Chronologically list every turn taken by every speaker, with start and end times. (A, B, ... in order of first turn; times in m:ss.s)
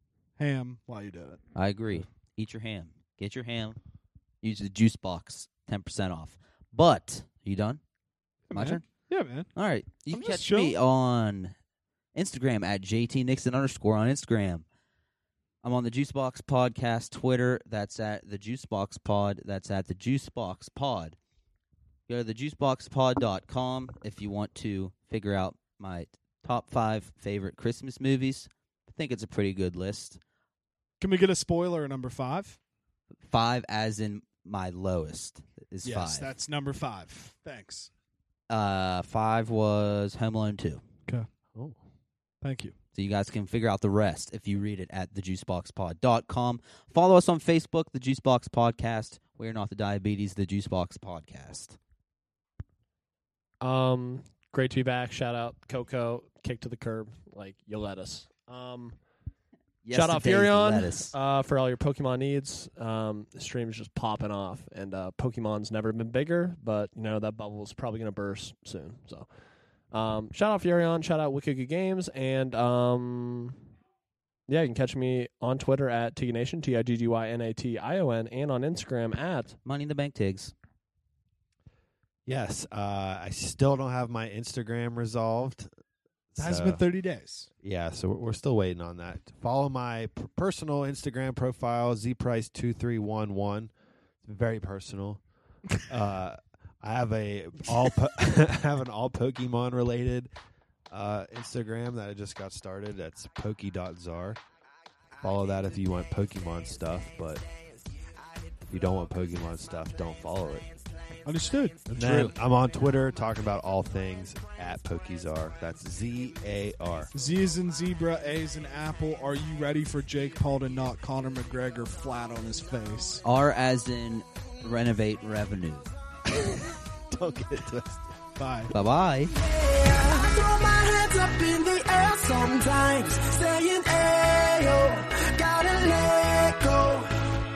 0:00.4-0:01.4 A
0:01.6-0:03.8 B
0:04.4-0:07.8 B
0:08.5-0:08.8 B
0:08.5-0:09.5 A
0:09.6-0:11.6 B
0:10.1-0:10.8 A
0:12.2-0:14.6 B
0:15.6-0:21.2 B
0:22.1-0:30.2 B
0:31.0-0:32.6 A
0:33.2-0:36.3 B
0:35.8-0:37.9 A
0:38.5-0:40.8 B
0:42.4-0:42.7 A
0:42.9-0:51.8 B
0:53.6-0:59.0 C
0:59.8-1:01.1 B
0:59.9-1:09.3 C
1:09.9-1:13.6 C
1:14.5-1:19.6 C
1:19.6-1:20.5 B
1:22.3-1:25.7 D
1:26.3-1:26.8 D
1:26.4-1:27.5 A
1:27.6-1:33.7 D
1:34.2-1:35.2 D
1:35.9-1:40.3 D
1:40.9-1:44.4 D
1:45.2-1:47.4 D
1:47.4-1:48.7 E
1:48.7-1:50.7 D
1:50.6-1:51.2 E
1:51.3-1:52.3 A
1:51.9-1:57.1 D
1:57.1-2:03.2 A
2:03.2-2:05.9 B
2:06.3-2:08.1 D
2:08.4-2:08.7 A
2:08.7-2:09.3 B
2:09.3-2:17.1 E